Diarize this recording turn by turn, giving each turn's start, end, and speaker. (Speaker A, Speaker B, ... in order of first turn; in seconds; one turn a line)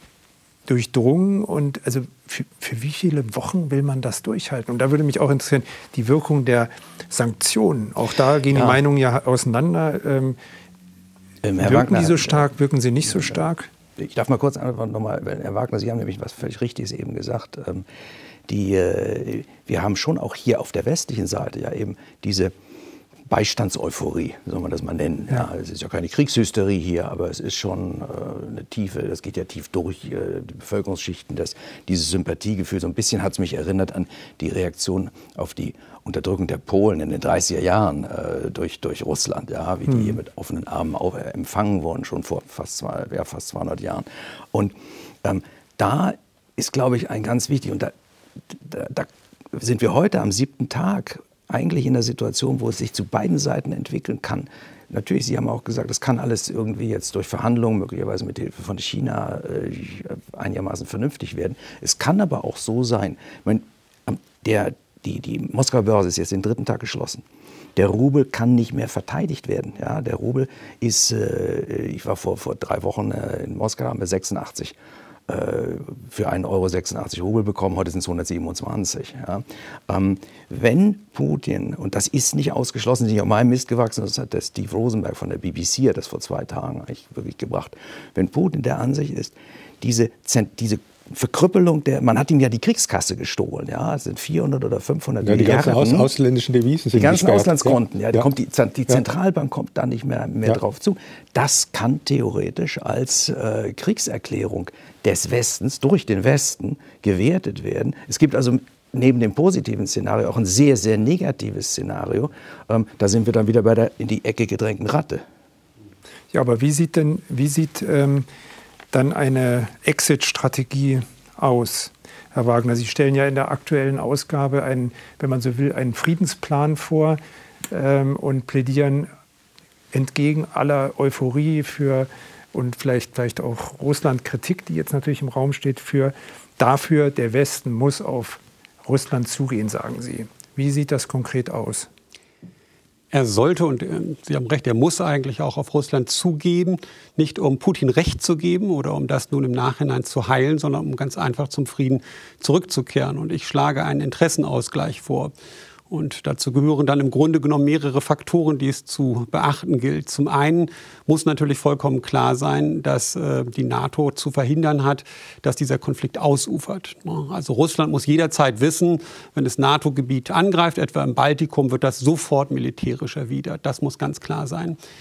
Speaker A: 0.7-10.4
Speaker B: 8.5-8.8
Speaker B: 11.4-12.5
Speaker A: 11.6-13.7
Speaker B: 13.0-13.4
Speaker B: 14.0-17.9
Speaker B: 18.5-22.5
Speaker B: 23.3-44.7
Speaker B: 45.2-47.9
Speaker B: 48.5-67.2
Speaker B: 67.8-74.8
Speaker B: 75.3-96.1
Speaker C: 95.2-98.2
Speaker B: 96.9-115.2
Speaker A: 116.3-118.3
Speaker A: 118.9-127.2
Speaker A: 127.7-129.1
Speaker A: 129.9-141.9
Speaker D: 143.1-155.3
Speaker D: 155.9-174.8